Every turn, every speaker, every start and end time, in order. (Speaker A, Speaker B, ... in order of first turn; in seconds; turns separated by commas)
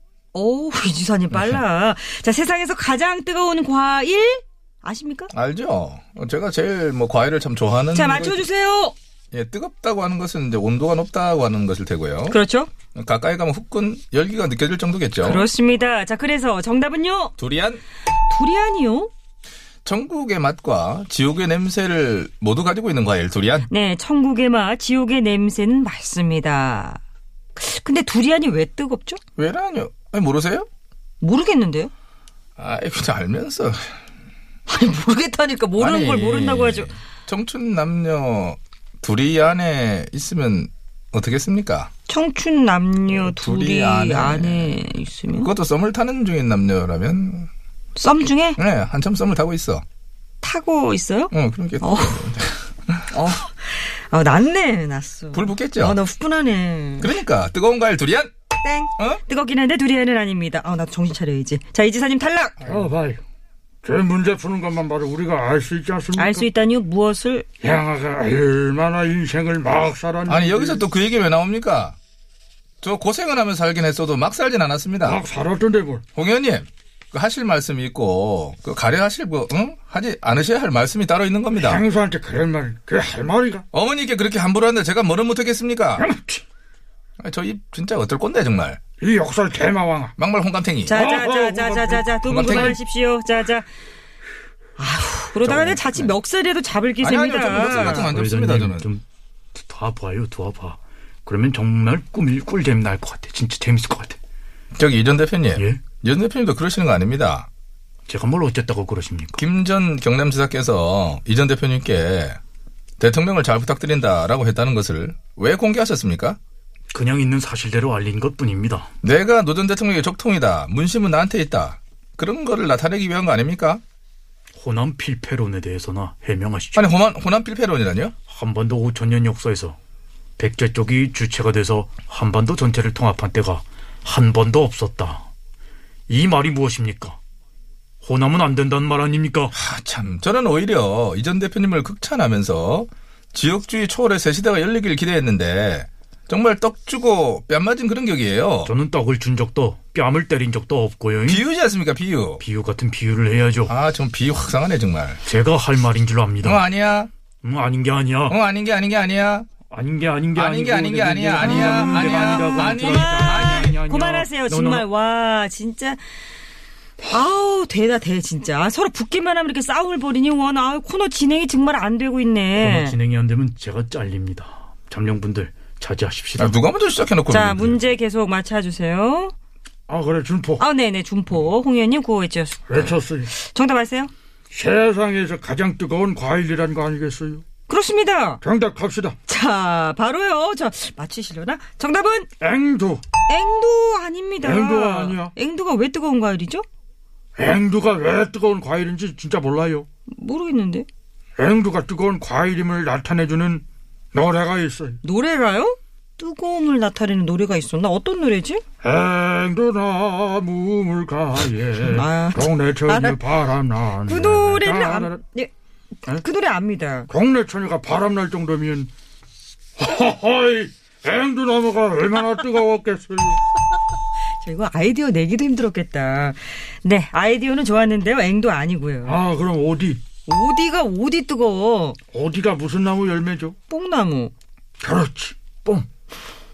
Speaker A: 0.3-5.3, Speaker B: 1.3-1.6, Speaker B: 5.3-8.5, Speaker A: 7.9-8.9, Speaker B: 9.3-12.4, Speaker A: 12.3-12.7, Speaker B: 12.9-15.5, Speaker A: 15.2-17.3, Speaker B: 17.4-17.8, Speaker A: 18.3-19.1, Speaker B: 19.9-23.7, Speaker A: 23.7-27.0, Speaker A: 27.6-29.2, Speaker B: 29.4-30.7, Speaker A: 31.2-31.9, Speaker B: 32.6-33.9, Speaker A: 34.7-36.9, Speaker B: 35.8-41.9, Speaker A: 42.1-45.5, Speaker B: 43.1-44.8, Speaker B: 45.3-47.5, Speaker A: 48.0-48.6, Speaker B: 48.6-49.8, Speaker A: 50.4-52.5, Speaker B: 51.3-53.0, Speaker A: 53.1-57.1, Speaker B: 55.3-56.0, Speaker B: 57.0-58.3, Speaker A: 58.6-62.6, Speaker B: 62.6-62.9, Speaker C: 62.7-63.2, Speaker C: 63.8-66.5, Speaker A: 66.2-67.5, Speaker C: 67.6-70.8, Speaker B: 70.3-72.0, Speaker B: 72.8-75.2, Speaker C: 75.0-76.0, Speaker B: 76.2-81.8, Speaker C: 81.6-83.7, Speaker B: 83.7-86.1, Speaker C: 86.0-86.4, Speaker B: 87.2-88.8, Speaker C: 89.0-90.1, Speaker B: 90.2-91.0, Speaker A: 90.9-93.7, Speaker C: 90.9-92.8, Speaker B: 92.3-92.8, Speaker A: 94.8-98.1, Speaker B: 97.0-98.9, Speaker D: 97.6-104.2, Speaker B: 104.8-107.5, Speaker D: 105.6-105.8, Speaker D: 108.1-109.4, Speaker B: 109.4-112.4, Speaker B: 113.0-116.4, Speaker D: 116.9-118.9, Speaker B: 119.0-123.8, Speaker D: 124.5-126.9, Speaker B: 126.8-128.2, Speaker D: 128.3-129.8, Speaker D: 130.4-135.3, Speaker D: 136.1-137.2, Speaker D: 138.0-139.5, Speaker B: 139.5-148.7, Speaker D: 148.6-151.5, Speaker B: 151.2-152.4, Speaker D: 152.4-153.7, Speaker B: 153.7-155.2, Speaker D: 155.2-156.7, Speaker B: 156.4-157.1, Speaker D: 157.4-158.4, Speaker B: 158.3-159.5, Speaker D: 159.7-164.9, Speaker B: 160.4-163.8, Speaker A: 161.4-166.0, Speaker A: 167.1-173.0, Speaker D: 172.6-176.6, Speaker B: 176.4-177.8, Speaker A: 177.3-179.3, Speaker C: 179.9-180.6, Speaker A: 180.6-184.1, Speaker C: 182.7-183.3, Speaker C: 184.5-187.4, Speaker A: 187.7-188.4, Speaker C: 188.4-189.2, Speaker A: 189.3-192.3, Speaker C: 192.4-193.0, Speaker A: 193.3-196.7, Speaker C: 194.4-195.3, Speaker C: 197.4-199.9, Speaker A: 200.1-200.9, Speaker C: 201.4-205.0, Speaker A: 205.0-208.6, Speaker C: 208.8-215.2, Speaker A: 211.8-213.2, Speaker A: 214.1-215.5, Speaker A: 216.1-217.1, Speaker C: 217.1-218.9, Speaker C: 219.8-223.4, Speaker A: 224.4-229.2, Speaker C: 229.1-230.0, Speaker A: 230.3-232.0, Speaker C: 232.1-233.6, Speaker A: 233.7-234.3, Speaker C: 234.8-235.9